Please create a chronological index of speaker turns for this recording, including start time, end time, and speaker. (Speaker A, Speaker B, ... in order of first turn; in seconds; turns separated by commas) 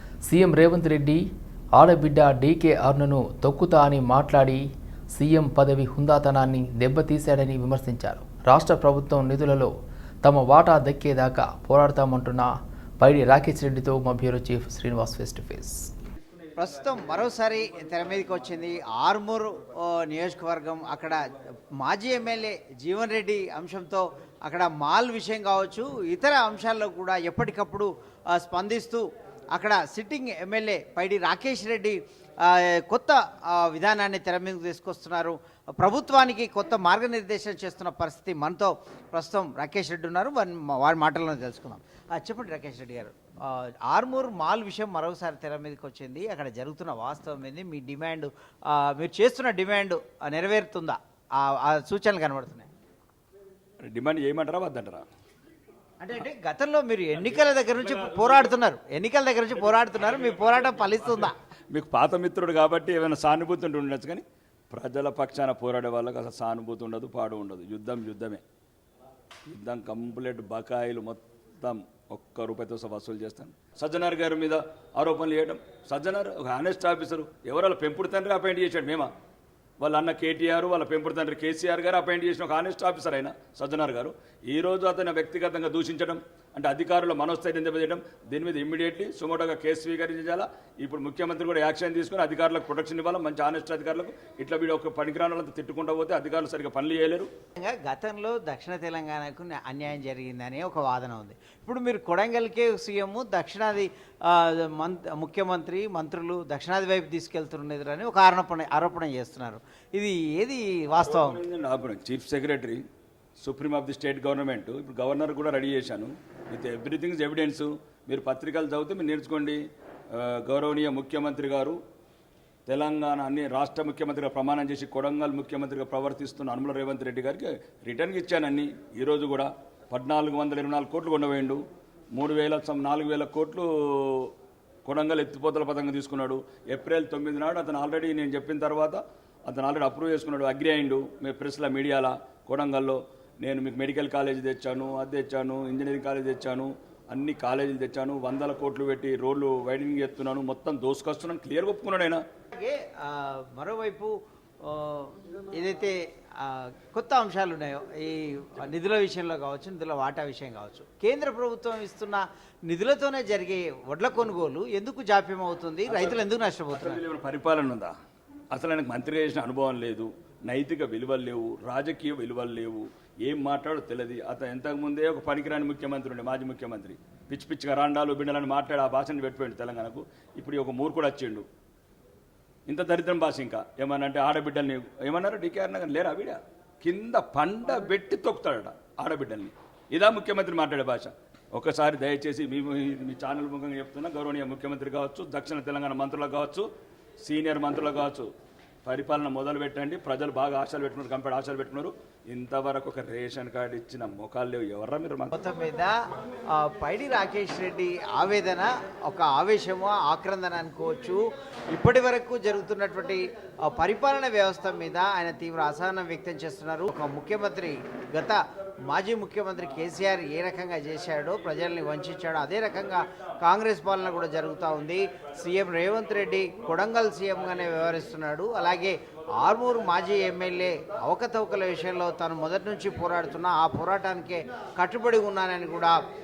Speaker A: 0.3-1.2, Speaker A: 1.8-9.7, Speaker A: 10.2-15.8, Speaker B: 16.6-21.2, Speaker B: 21.8-29.0, Speaker B: 29.6-52.7, Speaker C: 53.8-55.0, Speaker B: 56.0-61.4, Speaker C: 57.2-58.5, Speaker C: 59.7-68.4, Speaker C: 69.5-79.1, Speaker C: 79.8-97.3, Speaker B: 97.6-111.4, Speaker C: 111.0-112.8, Speaker C: 113.4-119.6, Speaker C: 120.1-121.8, Speaker C: 122.7-131.6, Speaker C: 132.2-134.3, Speaker C: 134.8-152.2, Speaker B: 152.5-167.0, Speaker C: 165.9-167.9, Speaker C: 168.5-181.5, Speaker C: 182.7-196.7, Speaker C: 197.2-198.3, Speaker C: 198.8-205.3, Speaker B: 205.3-205.9, Speaker B: 206.6-211.2, Speaker B: 211.7-236.0